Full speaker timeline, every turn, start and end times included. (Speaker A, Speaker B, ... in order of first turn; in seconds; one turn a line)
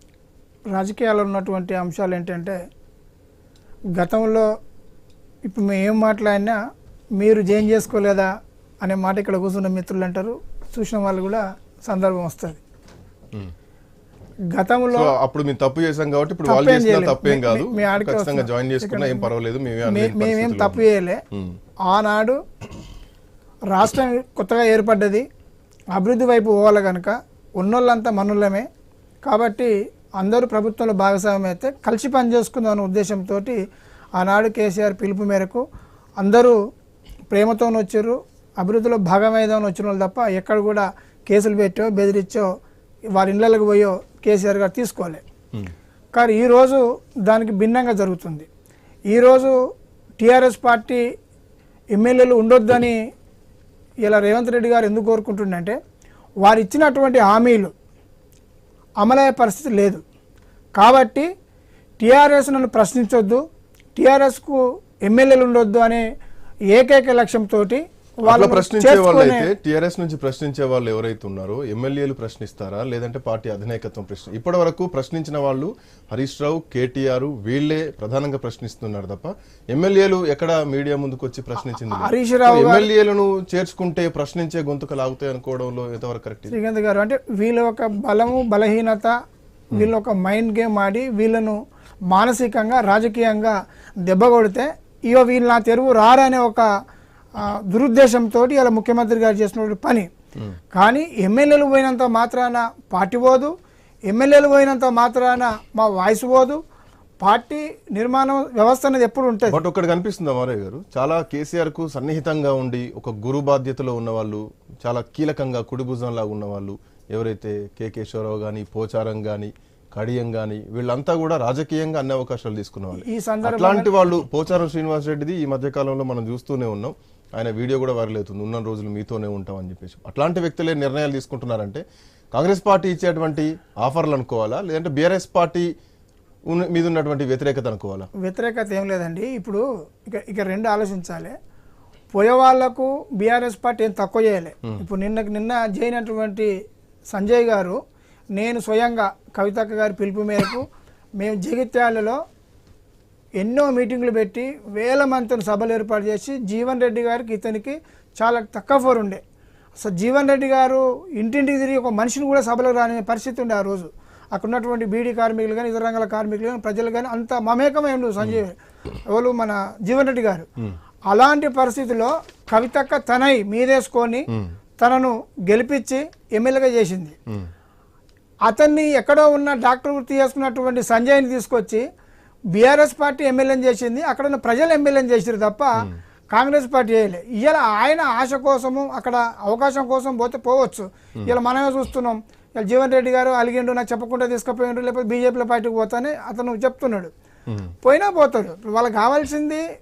Speaker A: 0.7-2.6
Speaker A: 4.0-4.5
Speaker A: 5.5-6.6
Speaker A: 7.2-8.3
Speaker A: 8.8-12.6
Speaker A: 14.5-15.1
Speaker B: 14.9-21.6
Speaker A: 16.5-19.3
Speaker A: 19.9-21.2
Speaker A: 21.9-22.4
Speaker A: 23.7-25.3
Speaker A: 25.9-28.7
Speaker A: 29.2-33.6
Speaker A: 34.2-35.6
Speaker A: 36.2-36.6
Speaker A: 37.3-42.5
Speaker A: 43.1-45.2
Speaker A: 46.1-48.5
Speaker A: 49.1-49.6
Speaker A: 50.2-51.0
Speaker A: 51.9-53.0
Speaker A: 54.0-55.8
Speaker A: 56.4-57.7
Speaker A: 59.0-60.0
Speaker A: 60.8-61.3
Speaker A: 62.0-63.4
Speaker A: 64.0-66.0
Speaker A: 66.7-69.5
Speaker B: 68.3-86.5
Speaker A: 81.6-82.9
Speaker A: 86.5-89.1
Speaker A: 89.7-91.6
Speaker A: 92.1-96.7
Speaker A: 97.7-100.1
Speaker A: 100.7-103.5
Speaker A: 104.1-106.6
Speaker A: 107.2-109.6
Speaker B: 109.5-135.7
Speaker A: 122.9-123.9
Speaker B: 136.5-138.1
Speaker A: 138.2-141.3
Speaker A: 142.1-146.5
Speaker A: 147.1-147.8
Speaker A: 148.3-150.7
Speaker A: 151.2-152.2
Speaker A: 153.4-159.2
Speaker A: 159.8-168.6
Speaker A: 169.1-170.5
Speaker A: 171.1-174.3
Speaker A: 174.8-177.2
Speaker A: 178.5-181.8
Speaker A: 182.5-197.1
Speaker A: 197.8-199.6